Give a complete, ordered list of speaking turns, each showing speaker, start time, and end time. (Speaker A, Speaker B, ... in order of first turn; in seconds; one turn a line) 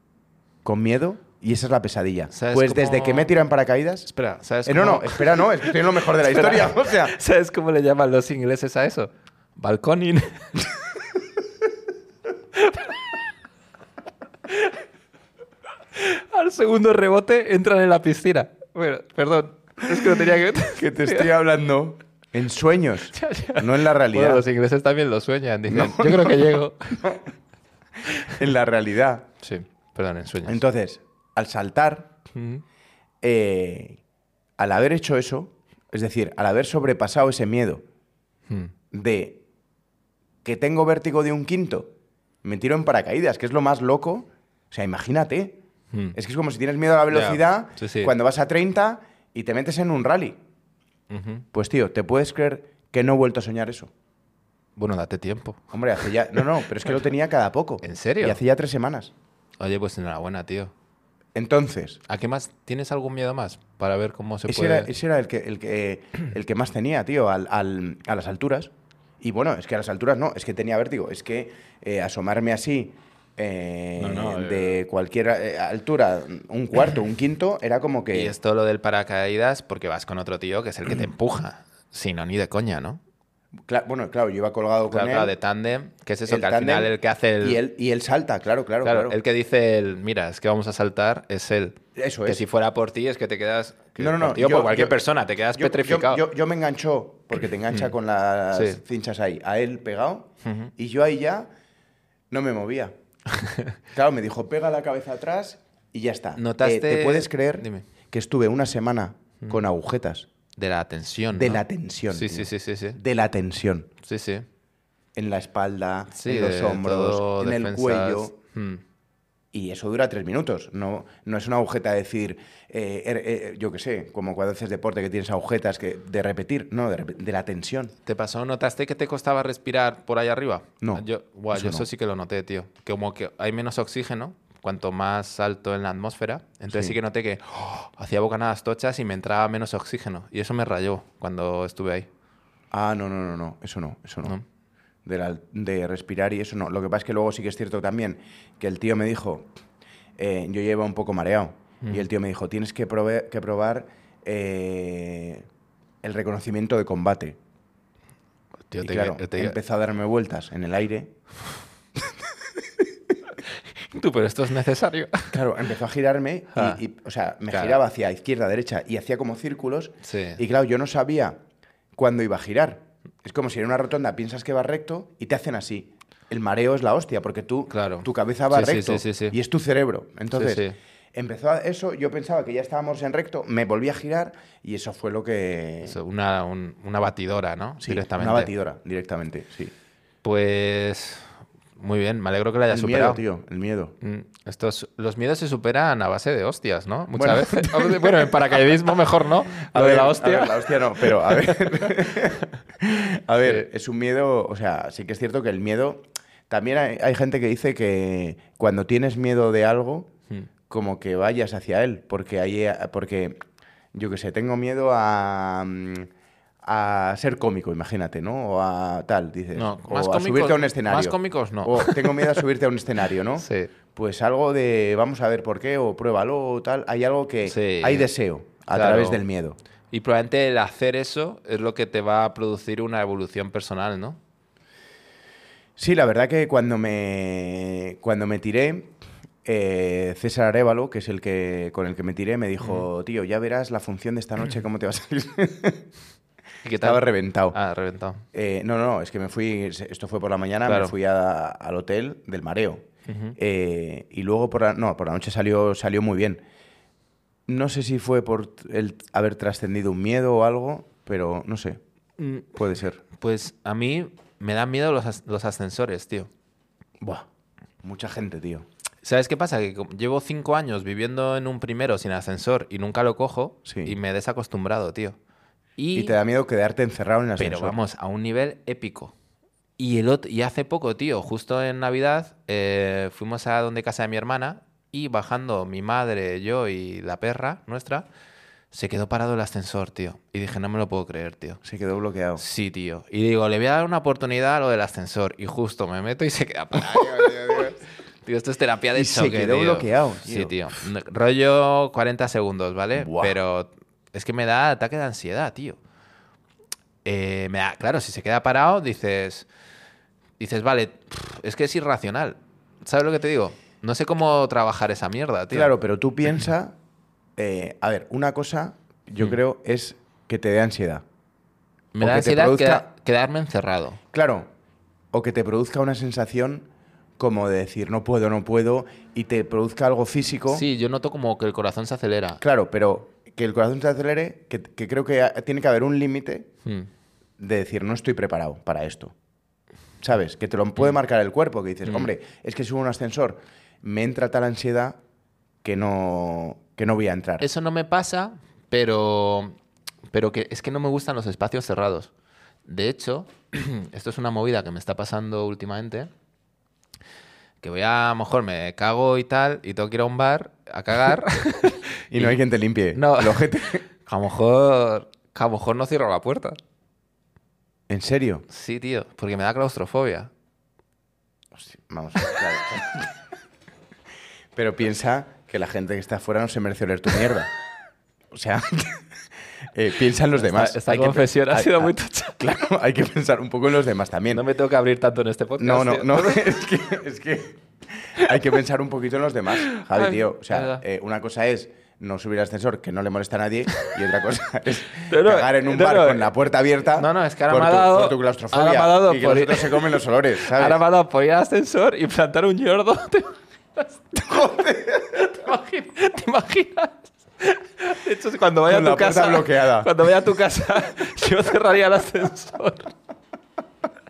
Speaker A: 0.6-4.1
Speaker B: 2.3-3.3
Speaker B: 4.1-10.6
Speaker A: 4.6-7.1
Speaker B: 12.6-12.9
Speaker B: 14.5-14.8
Speaker B: 15.9-21.3
Speaker A: 19.9-20.2
Speaker A: 20.8-24.4
Speaker B: 23.1-27.2
Speaker A: 25.7-27.2
Speaker A: 28.2-29.3
Speaker B: 29.4-30.6
Speaker A: 30.4-32.1
Speaker B: 32.3-32.6
Speaker A: 33.2-34.0
Speaker A: 34.6-37.8
Speaker A: 38.9-39.4
Speaker A: 40.4-41.9
Speaker A: 42.4-45.6
Speaker A: 46.1-50.4
Speaker B: 47.1-48.1
Speaker B: 51.1-51.5
Speaker A: 51.5-53.9
Speaker B: 54.8-55.7
Speaker A: 55.7-59.1
Speaker B: 57.8-58.4
Speaker B: 59.6-60.7
Speaker A: 61.4-62.0
Speaker B: 62.1-64.9
Speaker A: 64.5-78.3
Speaker B: 74.0-74.8
Speaker B: 78.1-83.0
Speaker A: 83.7-85.3
Speaker B: 84.9-87.6
Speaker A: 86.3-89.2
Speaker B: 88.8-96.2
Speaker A: 91.9-92.4
Speaker A: 94.0-95.0
Speaker A: 95.5-101.5
Speaker B: 98.5-98.8
Speaker B: 100.4-100.7
Speaker A: 102.3-102.9
Speaker B: 103.3-103.7
Speaker A: 103.9-110.3
Speaker B: 106.4-107.8
Speaker B: 110.5-113.0
Speaker A: 111.3-113.9
Speaker B: 114.0-114.5
Speaker A: 115.1-118.3
Speaker B: 116.1-118.8
Speaker A: 119.5-127.9
Speaker B: 128.1-142.1
Speaker A: 130.8-131.9
Speaker A: 136.7-137.0
Speaker A: 142.7-144.3
Speaker A: 145.0-149.5
Speaker A: 150.2-155.5
Speaker A: 156.0-157.4
Speaker B: 158.7-159.6
Speaker A: 158.8-161.1
Speaker B: 163.9-165.4
Speaker A: 165.3-171.4
Speaker B: 166.5-166.8
Speaker B: 167.5-167.8
Speaker B: 170.0-170.4
Speaker A: 172.0-186.0
Speaker B: 177.7-179.4
Speaker B: 180.3-180.8
Speaker B: 185.8-188.5
Speaker A: 187.8-189.7
Speaker B: 190.2-193.2
Speaker A: 192.7-193.9
Speaker B: 194.0-202.2
Speaker A: 197.2-198.6
Speaker A: 199.7-210.1
Speaker A: 210.7-213.4
Speaker A: 213.9-216.1
Speaker A: 216.6-229.6
Speaker B: 219.5-222.4
Speaker B: 223.4-223.7
Speaker B: 227.5-228.1
Speaker B: 228.7-229.2
Speaker B: 229.9-234.2
Speaker A: 235.8-245.8
Speaker B: 246.6-248.2
Speaker A: 246.8-247.6
Speaker A: 248.3-252.8
Speaker B: 250.7-250.9
Speaker B: 253.1-253.3
Speaker A: 253.3-256.4
Speaker A: 257.5-261.8
Speaker B: 262.2-262.5
Speaker A: 262.5-263.0
Speaker B: 263.1-266.3
Speaker A: 267.0-267.2
Speaker A: 267.8-268.7
Speaker B: 269.0-275.2
Speaker A: 273.7-274.0
Speaker B: 275.8-276.2
Speaker A: 275.9-277.8
Speaker B: 277.4-279.1
Speaker B: 279.8-288.1
Speaker B: 288.7-291.6
Speaker A: 291.6-292.4
Speaker B: 292.4-305.8
Speaker A: 296.9-297.6
Speaker A: 298.9-300.5
Speaker A: 303.0-303.4
Speaker B: 307.0-309.5
Speaker B: 310.4-315.7
Speaker A: 315.5-316.8
Speaker A: 317.4-321.0
Speaker B: 321.9-324.0
Speaker A: 322.0-322.9
Speaker A: 324.1-324.5
Speaker A: 325.1-326.7
Speaker A: 327.2-330.6
Speaker B: 330.5-332.4
Speaker A: 332.4-336.5
Speaker A: 337.4-339.1
Speaker A: 340.0-345.0
Speaker B: 341.9-342.1
Speaker A: 345.6-347.5
Speaker B: 347.4-349.5
Speaker B: 350.1-352.1
Speaker B: 352.7-356.1
Speaker B: 357.6-362.4
Speaker A: 362.1-363.8
Speaker B: 362.9-366.6
Speaker A: 367.9-368.4
Speaker B: 368.5-370.3
Speaker A: 371.5-373.1
Speaker A: 374.5-377.5
Speaker A: 378.3-379.1
Speaker A: 379.7-384.4
Speaker B: 380.4-382.4
Speaker B: 384.3-386.4
Speaker A: 385.6-400.8
Speaker B: 389.7-390.8
Speaker B: 395.1-396.3
Speaker B: 396.9-399.9
Speaker B: 400.4-404.0
Speaker A: 404.1-405.4
Speaker B: 405.1-412.9
Speaker A: 408.6-409.9